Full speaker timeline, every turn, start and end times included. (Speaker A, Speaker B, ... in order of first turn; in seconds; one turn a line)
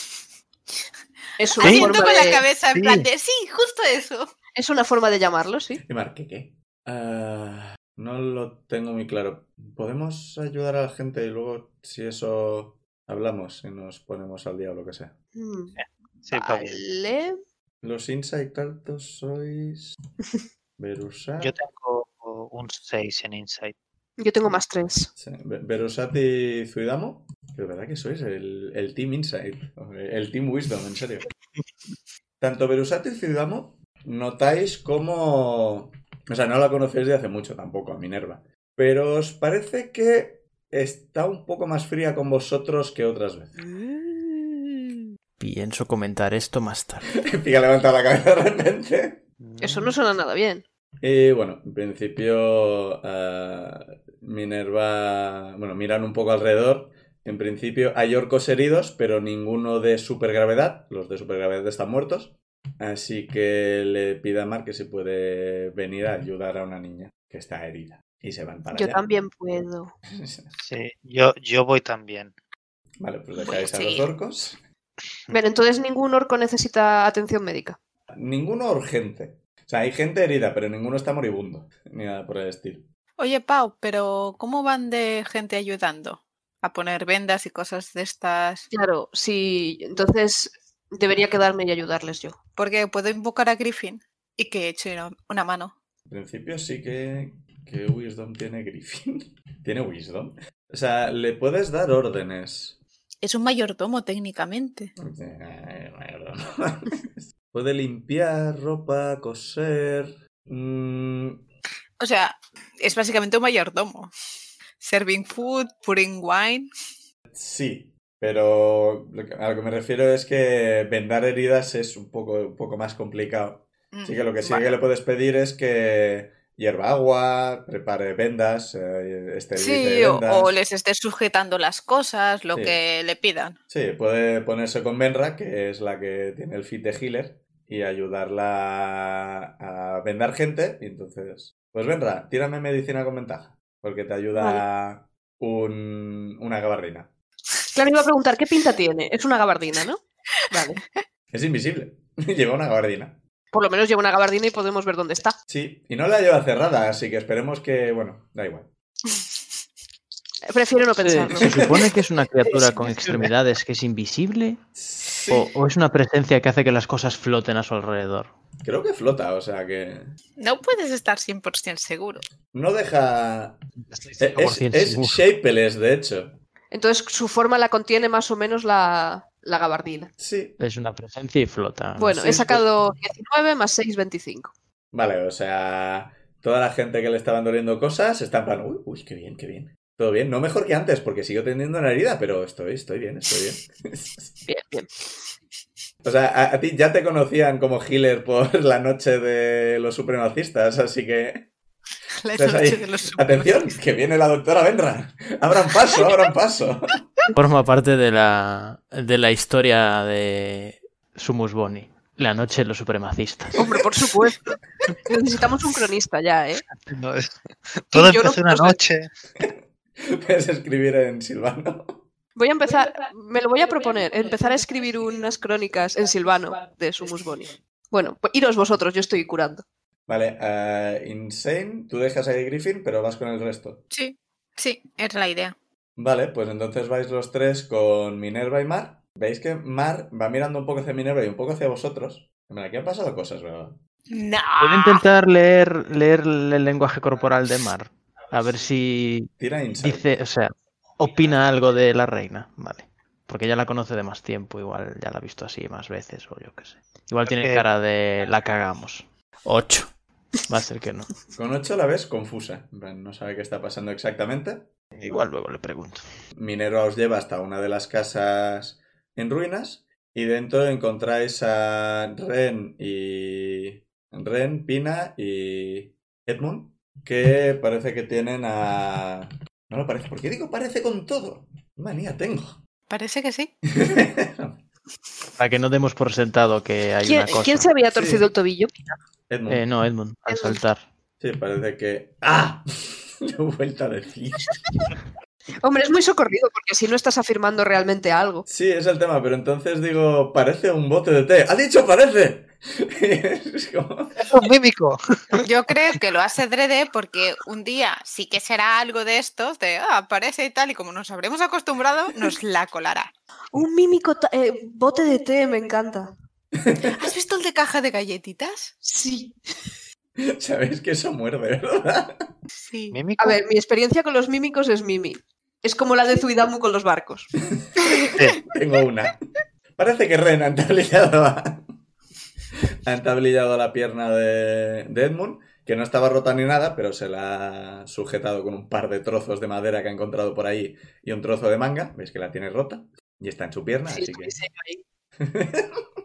Speaker A: 1.4-2.5
Speaker B: 1.6-4.3
Speaker C: 1.6-1.9
Speaker C: 2.7-3.1
Speaker A: 4.5-5.8
Speaker D: 5.8-15.2
Speaker A: 15.3-15.8
Speaker C: 15.8-16.8
Speaker A: 16.3-17.4
Speaker D: 17.8-20.0
Speaker D: 20.8-21.6
Speaker C: 21.4-23.8
Speaker A: 24.2-25.1
Speaker D: 25.2-31.3
Speaker D: 32.4-43.6
Speaker E: 45.4-47.1
Speaker D: 47.2-49.2
Speaker C: 49.4-50.0
Speaker A: 49.6-50.6
Speaker D: 51.0-69.0
Speaker A: 68.7-69.9
Speaker D: 70.1-70.5
Speaker C: 70.6-72.3
Speaker D: 73.0-74.6
Speaker B: 73.4-74.1
Speaker A: 75.3-77.8
Speaker D: 78.1-82.9
Speaker B: 83.2-88.7
Speaker A: 88.7-92.4
Speaker B: 92.6-95.8
Speaker D: 96.1-102.8
Speaker B: 103.2-104.9
Speaker D: 105.0-111.5
Speaker B: 112.0-114.1
Speaker B: 114.8-116.7
Speaker D: 117.3-130.6
Speaker B: 123.9-124.7
Speaker B: 129.6-133.6
Speaker D: 132.5-132.8
Speaker D: 133.7-147.1
Speaker A: 144.3-144.6
Speaker A: 147.7-150.8
Speaker D: 151.3-153.2
Speaker A: 153.5-155.4
Speaker D: 155.5-158.7
Speaker A: 160.5-161.6
Speaker E: 161.0-164.6
Speaker D: 161.4-161.9
Speaker D: 164.8-165.5
Speaker E: 165.3-168.3
Speaker D: 168.6-170.1
Speaker B: 170.4-172.2
Speaker D: 172.5-173.6
Speaker E: 173.8-175.2
Speaker D: 174.2-176.3
Speaker A: 176.7-180.1
Speaker D: 180.2-180.6
Speaker E: 180.6-182.6
Speaker A: 182.0-184.5
Speaker D: 184.9-194.4
Speaker A: 194.5-194.9
Speaker D: 196.0-201.5
Speaker B: 202.2-203.7
Speaker D: 202.3-207.0
Speaker E: 207.3-213.6
Speaker A: 213.6-216.7
Speaker C: 216.8-219.1
Speaker A: 217.9-218.8
Speaker D: 219.4-222.1
Speaker A: 222.4-229.6
Speaker D: 230.1-233.8
Speaker B: 233.9-235.6
Speaker D: 236.0-243.8
Speaker B: 244.1-245.0
Speaker E: 244.6-260.0
Speaker D: 249.4-250.2
Speaker C: 257.3-257.7
Speaker E: 260.5-261.1
Speaker D: 261.4-264.7
Speaker E: 265.1-266.1
Speaker D: 266.3-282.6
Speaker B: 282.9-283.5
Speaker D: 283.6-284.6
Speaker E: 285.4-287.7
Speaker A: 287.0-288.7
Speaker D: 287.9-288.3
Speaker D: 289.3-289.7
Speaker E: 289.5-290.9
Speaker A: 290.3-290.6
Speaker D: 291.2-294.6
Speaker A: 295.6-298.5
Speaker D: 298.5-304.3
Speaker C: 304.2-305.4
Speaker B: 305.4-313.1
Speaker A: 313.5-316.1
Speaker D: 316.5-317.0
Speaker B: 316.9-318.8
Speaker A: 318.8-319.4
Speaker D: 320.2-322.4
Speaker B: 322.6-323.0
Speaker C: 322.9-323.4
Speaker A: 323.2-327.3
Speaker D: 328.5-329.2
Speaker D: 329.8-331.8
Speaker D: 332.8-344.4
Speaker A: 343.9-344.8
Speaker D: 345.2-345.8